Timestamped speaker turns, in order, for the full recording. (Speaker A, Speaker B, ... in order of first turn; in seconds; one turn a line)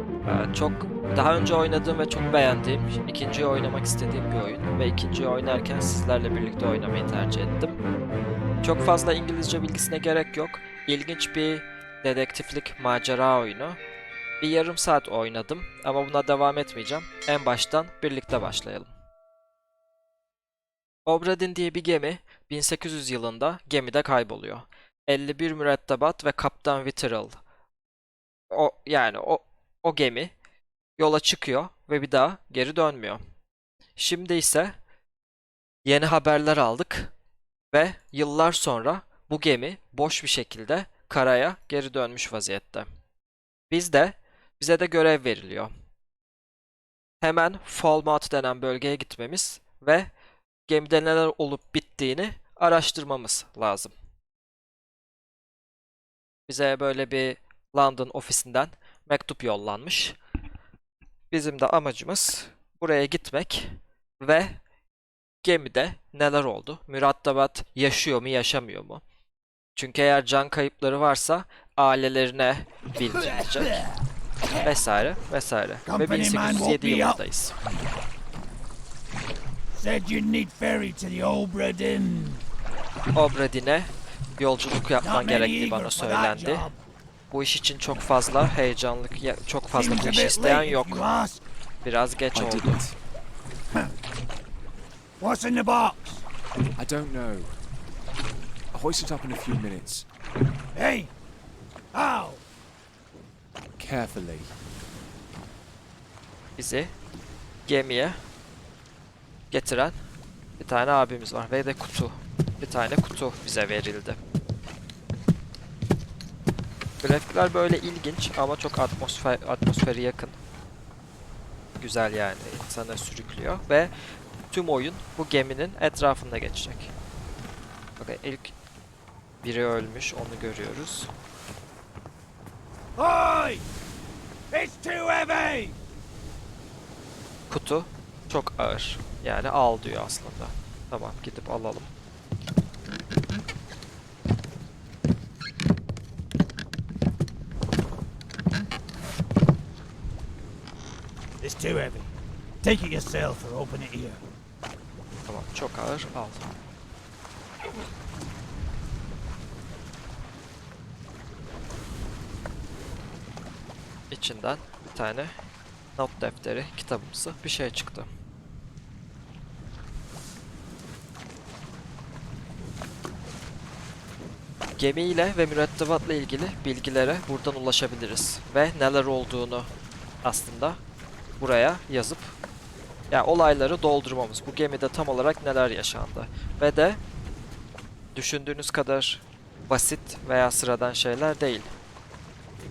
Speaker A: 0.2-7.8
Speaker A: 8.6-13.8
Speaker A: 14.4-18.9
Speaker A: 21.1-27.4
Speaker A: 28.5-30.3
Speaker A: 31.0-33.2
Speaker A: 34.0-34.7
Speaker A: 35.8-37.1
Speaker A: 37.7-42.9
Speaker A: 43.7-45.7
Speaker A: 47.2-50.1
Speaker A: 50.7-53.9
Speaker A: 56.5-60.2
Speaker A: 61.3-64.6
Speaker A: 65.4-69.0
Speaker A: 69.7-73.9
Speaker A: 74.6-77.6
Speaker B: 75.9-77.2
Speaker B: 79.7-82.4
Speaker A: 83.1-86.7
Speaker B: 85.0-86.8
Speaker A: 87.3-91.1
Speaker B: 89.7-91.4
Speaker A: 91.8-92.9
Speaker C: 92.3-92.9
Speaker B: 95.2-96.2
Speaker C: 96.8-97.5
Speaker C: 98.7-100.0
Speaker B: 100.7-101.1
Speaker B: 101.9-102.4
Speaker C: 103.8-104.5
Speaker A: 106.6-106.9
Speaker A: 107.7-108.2
Speaker A: 109.5-110.0
Speaker A: 110.6-114.2
Speaker A: 117.0-120.4
Speaker A: 121.8-123.9
Speaker A: 124.5-126.9
Speaker A: 128.0-128.5
Speaker A: 129.4-131.1
Speaker B: 133.0-133.6
Speaker B: 134.5-135.8
Speaker A: 137.5-141.9
Speaker B: 151.4-152.1
Speaker B: 152.6-154.2
Speaker A: 155.3-156.5
Speaker A: 164.1-165.3
Speaker A: 166.0-168.1
Speaker A: 174.8-179.7
Speaker A: 180.2-180.8
Speaker A: 181.4-182.3
Speaker A: 183.1-187.0
Speaker A: 188.1-191.7